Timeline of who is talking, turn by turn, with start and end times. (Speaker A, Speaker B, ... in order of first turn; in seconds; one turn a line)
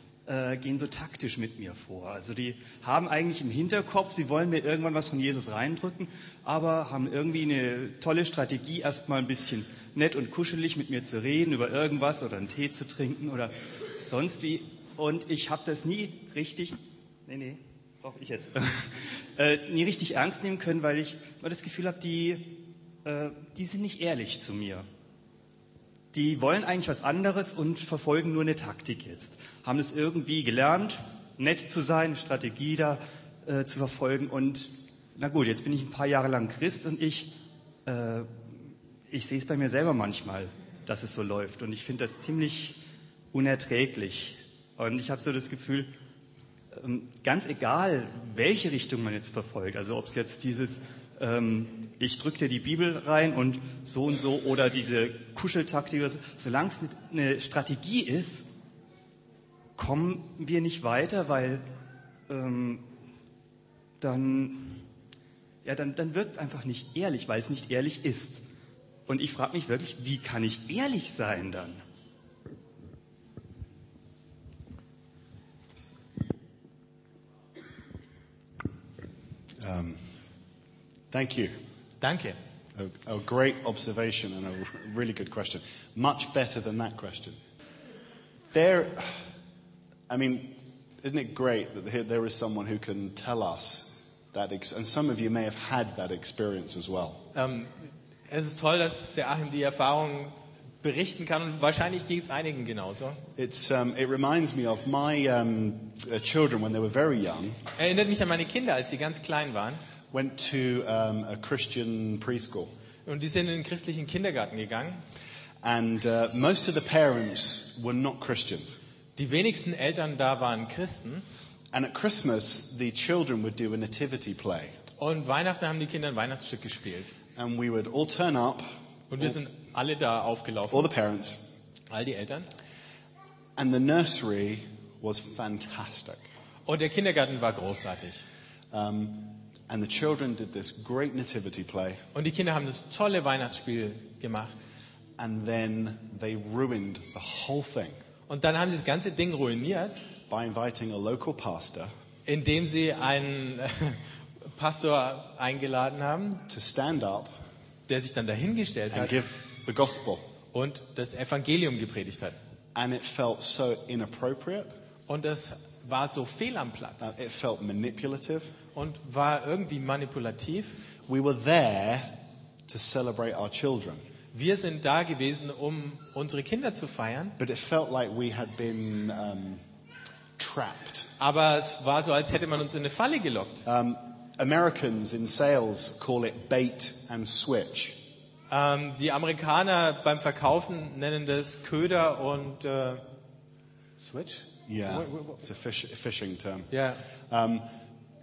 Speaker A: 0.3-24.9
Speaker A: 26.1-37.3
Speaker A: 37.9-38.3
Speaker A: 39.1-42.8
Speaker A: 43.3-45.9
Speaker A: 46.7-58.5
Speaker A: 59.8-61.6
Speaker A: 62.3-62.8
Speaker A: 64.0-64.7
Speaker A: 65.6-68.4
Speaker A: 69.1-71.8
Speaker B: 79.6-80.1
Speaker B: 81.1-81.6
Speaker C: 82.0-82.4
Speaker B: 82.8-87.4
Speaker B: 88.5-89.3
Speaker B: 90.1-97.2
Speaker C: 97.3-97.8
Speaker C: 98.3-103.2
Speaker B: 103.4-107.6
Speaker C: 107.8-109.8
Speaker B: 110.1-112.7
Speaker C: 113.1-115.0
Speaker B: 115.6-118.8
Speaker C: 119.2-121.2
Speaker B: 121.7-124.8
Speaker C: 125.0-127.1
Speaker B: 127.3-129.3
Speaker C: 129.1-130.9
Speaker B: 130.7-131.4
Speaker C: 131.9-132.5
Speaker B: 133.6-136.3
Speaker C: 136.7-138.2
Speaker B: 138.7-142.0
Speaker C: 142.2-144.7
Speaker B: 145.2-148.0
Speaker C: 148.3-150.0
Speaker B: 150.3-151.9
Speaker C: 152.3-156.5
Speaker B: 156.5-157.3
Speaker C: 157.9-159.1
Speaker B: 158.9-160.3
Speaker C: 160.5-162.4
Speaker B: 162.8-164.8
Speaker C: 165.1-167.1
Speaker B: 167.0-168.6
Speaker C: 168.7-170.8
Speaker B: 171.1-174.0
Speaker C: 174.3-177.4
Speaker B: 177.4-179.6
Speaker B: 180.4-181.1
Speaker C: 181.2-183.6
Speaker B: 183.7-188.0
Speaker C: 188.5-193.0
Speaker C: 194.0-195.4
Speaker B: 194.7-196.7
Speaker C: 196.7-197.0
Speaker B: 197.3-197.7